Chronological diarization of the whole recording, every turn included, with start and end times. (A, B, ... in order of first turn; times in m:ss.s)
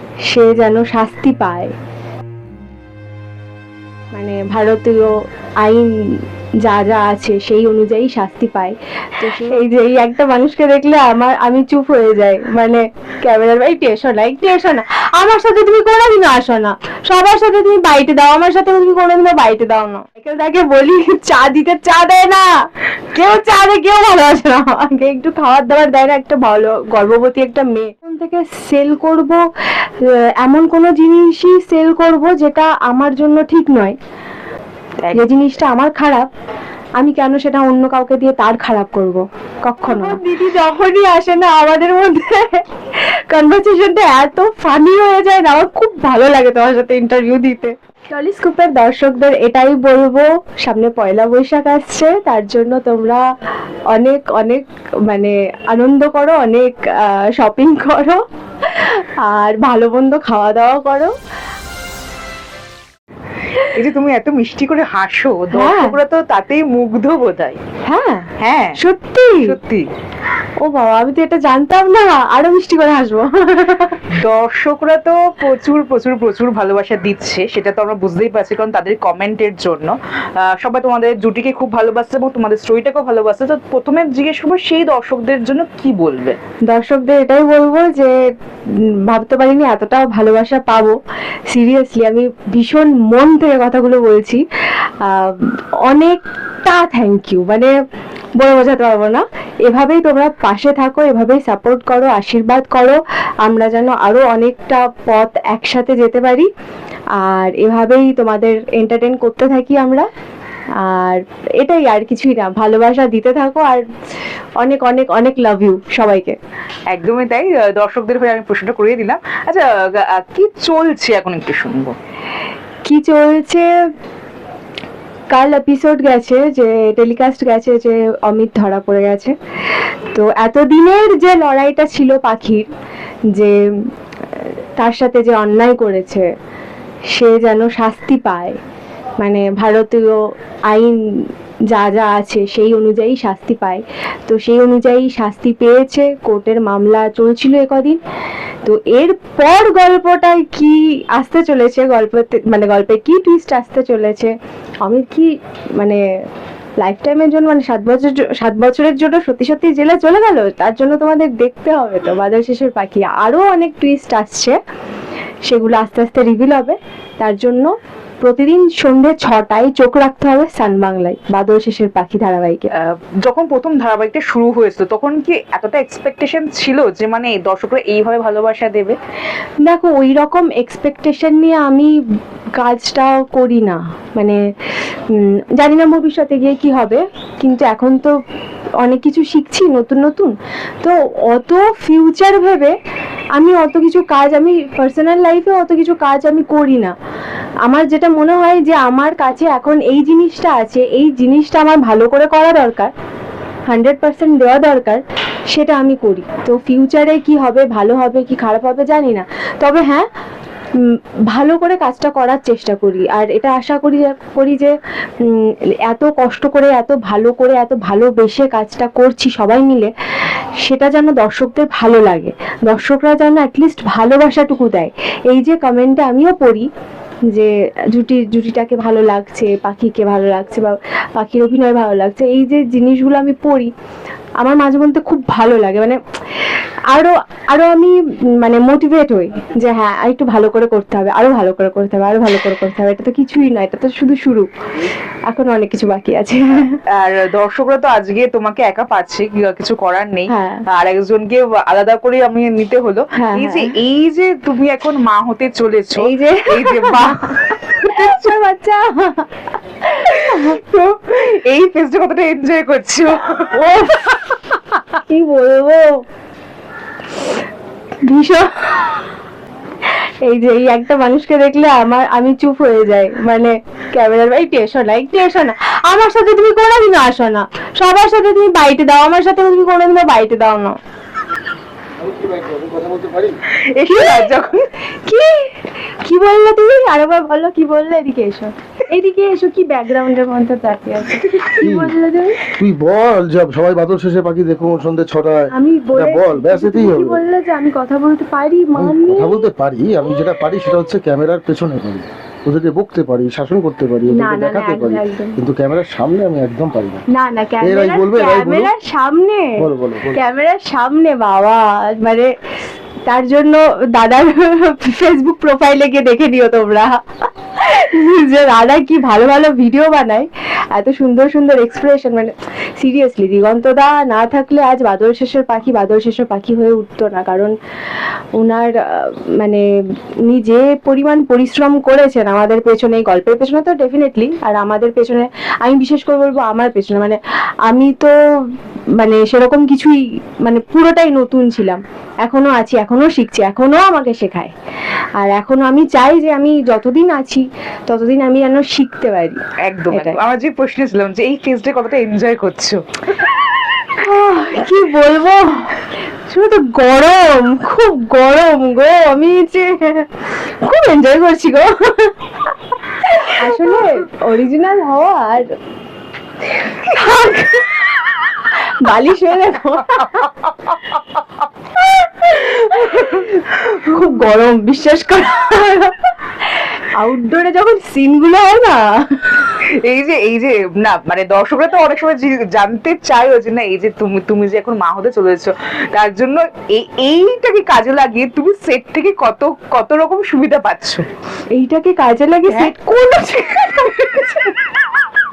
0:00.3-0:01.7 A
0:04.1-0:22.5 A
0:23.1-0:29.4 A
0:30.4-0:34.0 A
0:35.1-0:36.2 A
0:37.0-0:42.6 A
0:43.3-0:53.2 A
0:53.9-1:01.1 A
1:03.6-1:07.6 B
1:05.5-1:06.0 A
1:07.9-1:09.5 A
1:08.4-1:08.8 B
1:09.4-1:09.9 B
1:10.6-1:14.0 A
1:14.2-1:26.4 B
1:26.7-1:28.2 A
1:29.1-1:31.0 A
1:31.5-1:34.4 A
1:35.0-1:37.7 A
1:38.4-1:46.5 A
1:47.2-1:50.1 A
1:50.8-1:53.8 A
1:54.6-1:56.4 A
1:56.9-2:02.0 B
2:02.8-2:03.7 A
2:05.3-2:09.3 A
2:10.1-2:12.7 A
2:14.4-2:16.3 A
2:17.1-2:18.6 A
2:19.2-2:28.0 A
2:28.6-2:36.0 A
2:36.8-2:44.6 A
2:45.5-2:47.7 A
2:48.2-2:52.7 A
2:52.8-2:59.0 B
2:59.6-3:01.9 A
3:02.6-3:04.4 A
3:05.1-3:08.1 A
3:08.8-3:12.7 A
3:13.4-3:16.9 A
3:17.7-3:22.9 A
3:23.7-3:30.1 A
3:31.0-3:39.9 A
3:40.6-3:46.7 A
3:47.3-3:53.7 A
3:54.4-3:56.0 A
3:56.9-4:04.5 A
4:05.3-4:06.8 A
4:07.0-4:18.3 B
4:10.3-4:10.6 A
4:13.2-4:13.7 A
4:16.0-4:19.3 A
4:19.8-4:20.6 A
4:20.1-4:23.5 B
4:23.5-4:24.3 A
4:25.1-4:26.0 A
4:28.0-4:28.9 A
4:30.2-4:40.8 A
4:42.0-4:43.4 C
4:43.8-4:44.7 B
4:43.9-4:44.3 A
4:45.1-4:52.4 A
4:51.2-4:51.5 B
4:51.6-4:52.0 C
4:52.5-4:57.2 C
4:55.5-4:59.5 A
4:58.8-5:07.0 C
5:04.1-5:05.4 A
5:07.1-5:12.3 A
5:07.6-5:08.7 C
5:09.6-5:10.2 C
5:13.1-5:27.5 A
5:28.4-5:29.6 A
5:30.3-5:38.1 A
5:39.0-5:44.5 A
5:45.2-5:49.4 A
5:49.6-5:52.8 B
5:49.9-5:50.2 A
5:54.0-6:02.1 A
6:03.1-6:05.5 A
6:06.6-6:07.8 A
6:08.8-6:10.3 A
6:12.2-6:13.3 A
6:12.7-6:13.1 B
6:13.7-6:14.1 B
6:13.9-6:16.0 A
6:16.5-6:19.4 A
6:19.8-6:31.0 B
6:31.5-6:34.5 A
6:32.5-6:32.7 B